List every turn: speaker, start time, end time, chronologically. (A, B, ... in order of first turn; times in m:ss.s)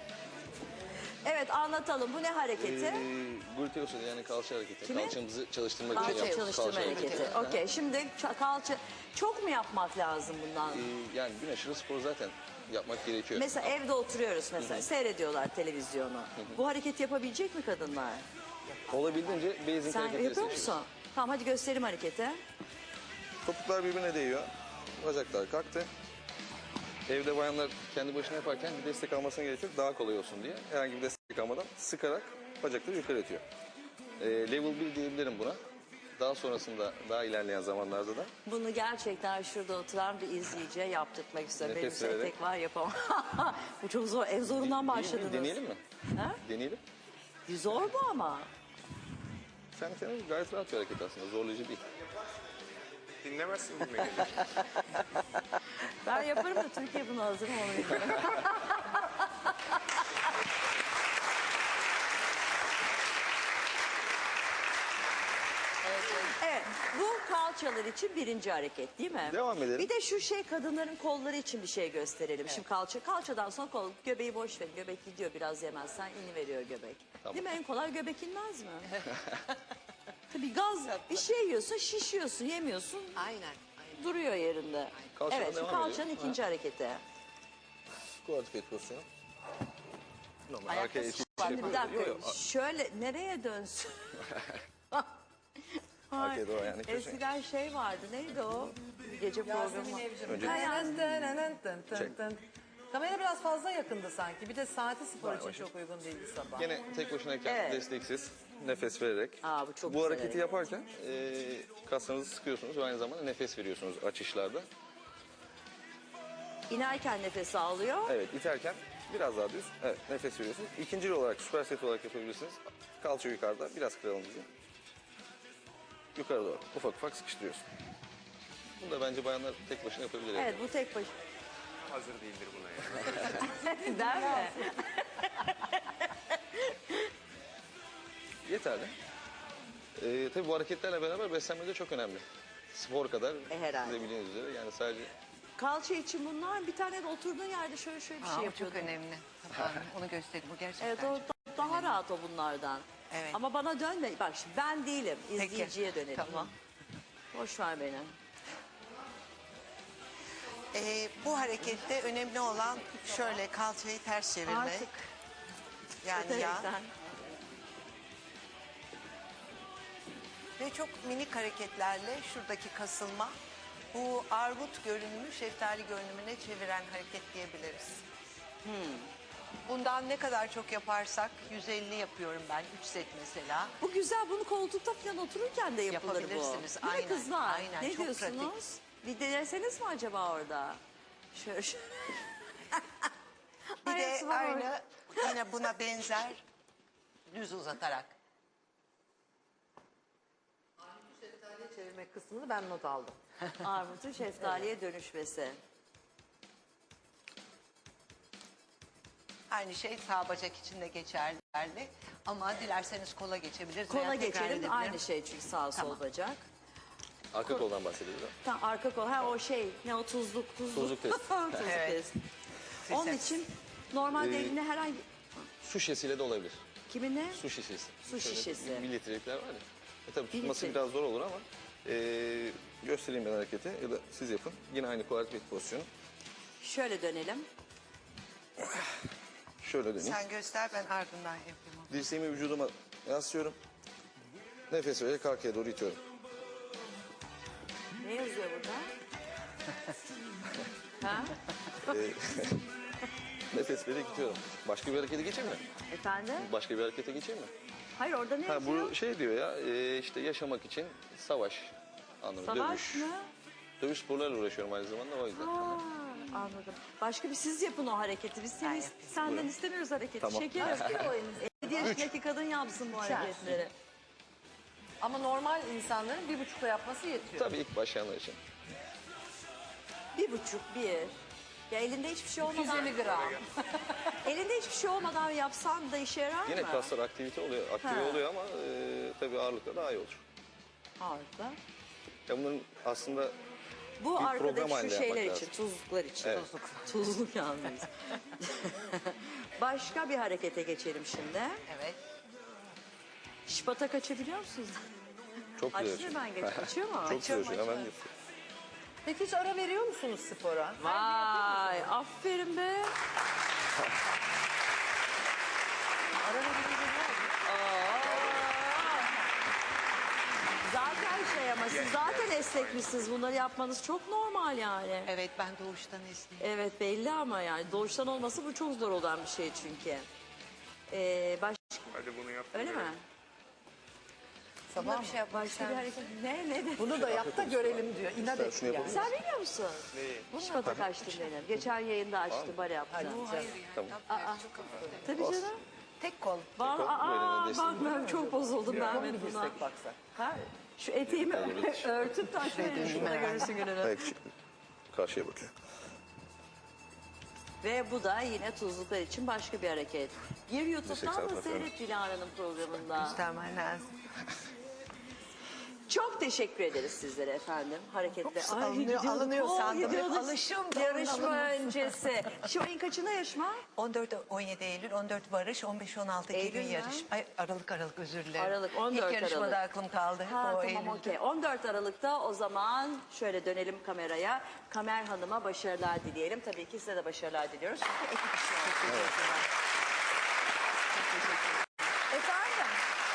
0:01.2-0:03.1 A
0:02.6-0:07.6 B
0:04.8-0:05.2 A
0:05.9-0:10.9 A
0:05.9-0:07.4 C
0:10.7-0:13.8 B
0:13.3-0:18.2 A
0:14.6-0:14.9 B
0:18.7-0:19.5 C
0:18.9-0:20.8 B
0:19.8-0:22.4 A
0:23.4-0:25.9 B
0:27.1-0:33.4 B
0:34.2-0:35.6 B
0:36.2-0:38.3 B
0:38.4-0:45.6 A
0:41.6-0:42.3 B
0:44.6-0:45.8 B
0:46.4-0:46.8 B
0:47.5-0:48.5 A
0:49.7-0:51.8 B
0:53.2-0:54.5 D
0:56.0-0:59.0 A
1:06.2-1:19.0 A
1:09.3-1:09.9 B
1:17.2-1:17.6 B
1:20.3-1:23.2 A
1:23.2-1:24.2 C
1:24.0-1:27.0 A
1:25.0-1:25.2 C
1:25.2-1:26.4 B
1:28.2-1:29.1 B
1:30.5-1:32.4 B
1:30.7-1:34.2 A
1:31.4-1:32.0 C
1:36.1-1:41.0 A
1:36.1-1:37.2 B
1:39.4-1:46.7 E
1:40.2-1:41.0 B
1:41.9-1:42.2 B
1:45.2-1:45.7 B
1:46.5-1:54.7 B
1:47.4-1:47.8 A
1:49.4-1:50.4 A
1:56.7-1:58.2 A
1:58.1-2:04.5 B
2:06.2-2:07.6 B
2:08.8-2:10.6 B
2:10.4-2:11.1 A
2:11.9-2:13.4 D
2:13.3-2:17.1 A
2:13.6-2:14.6 E
2:18.4-2:18.9 B
2:20.0-2:25.1 B
2:23.5-2:24.1 A
2:25.6-2:29.0 A
2:28.2-2:32.0 C
2:30.8-2:36.5 A
2:33.1-2:33.4 C
2:35.4-2:36.5 C
2:37.3-2:38.2 A
2:40.7-2:44.9 C
2:44.5-2:45.1 A
2:46.0-2:46.7 C
2:46.1-2:46.9 A
2:50.6-2:53.4 C
2:53.9-2:58.0 C
2:58.6-2:59.1 A
2:59.7-3:03.7 C
3:03.8-3:10.8 A
3:05.9-3:08.5 C
3:11.3-3:12.8 A
3:13.8-3:15.3 A
3:13.8-3:16.4 C
3:17.3-3:18.1 C
3:20.8-3:23.2 E
3:23.6-3:25.6 A
3:29.5-3:35.0 C
3:33.9-3:36.4 A
3:35.8-3:36.0 C
3:37.3-3:38.4 B
3:38.4-3:42.2 A
3:40.7-3:41.8 B
3:41.7-3:42.0 C
3:42.8-3:43.4 C
3:42.9-3:45.4 A
3:44.2-3:44.6 B
3:45.6-3:46.6 B
3:46.9-3:47.4 A
3:47.3-3:55.9 B
3:48.0-3:48.9 A
3:50.3-3:50.8 A
3:56.6-3:57.5 A
3:59.6-4:00.2 B
4:00.0-4:02.0 C
4:01.9-4:03.6 B
4:04.7-4:06.0 B
4:08.0-4:08.9 A
4:11.0-4:11.4 A
4:11.9-4:12.6 B
4:13.5-4:15.7 B
4:15.9-4:16.5 A
4:16.4-4:17.5 B
4:18.0-4:18.9 A
4:18.5-4:23.1 B
4:22.4-4:23.3 A
4:23.8-4:25.8 B
4:25.3-4:33.7 A
4:28.6-4:29.3 C
4:29.2-4:29.5 B
4:30.2-4:31.1 B
4:30.6-4:32.0 E
4:31.8-4:32.1 B
4:32.9-4:33.6 E
4:35.0-4:37.5 E
4:37.3-4:38.4 B
4:40.1-4:41.1 A
4:41.7-4:43.1 A
4:42.4-4:44.0 E
4:42.8-4:43.4 D
4:44.2-4:46.9 A
4:46.5-4:50.2 B
4:47.8-4:48.2 A
4:51.0-4:51.6 A
4:52.3-4:53.4 B
4:54.0-5:01.6 A
4:54.2-4:55.5 B
4:56.2-4:56.5 B
4:56.5-4:56.8 C
5:01.7-5:02.0 C
5:03.5-5:04.9 A
5:05.6-5:08.1 B
5:05.7-5:07.2 A
5:07.1-5:07.9 C
5:09.0-5:11.9 E
5:10.8-5:12.9 A
5:16.2-5:17.4 E
5:17.4-5:19.1 A
5:18.0-5:18.5 D
5:20.6-5:25.1 A
5:21.6-5:23.2 D
5:25.1-5:26.5 C
5:26.4-5:30.1 A
5:30.9-5:32.0 A
5:31.9-5:32.9 D
5:32.5-5:33.0 A
5:34.7-5:35.3 E
5:34.8-5:36.1 C
5:35.3-5:37.0 A
5:36.8-5:39.1 E
5:36.9-5:39.1 B
5:38.9-5:43.2 A
5:39.9-5:40.8 B
5:40.3-5:41.3 C
5:42.3-5:42.6 B
5:42.9-5:43.6 E
5:43.0-5:45.2 C
5:44.1-5:44.4 A
5:45.0-5:45.6 A
5:45.2-5:45.5 B
5:46.0-5:46.6 C
5:46.6-5:54.1 A
5:46.6-5:48.0 B
5:47.9-5:50.0 E
5:51.1-5:54.2 B
5:52.4-5:53.6 C
5:54.9-5:55.5 B
5:57.6-6:03.2 A
6:00.9-6:01.7 B
6:03.0-6:03.9 C
6:05.9-6:13.6 A
6:08.2-6:12.0 C
6:13.8-6:21.2 C
6:16.3-6:17.1 A
6:18.4-6:19.6 A
6:20.3-6:29.1 A
6:28.9-6:29.2 B
6:32.1-6:32.8 A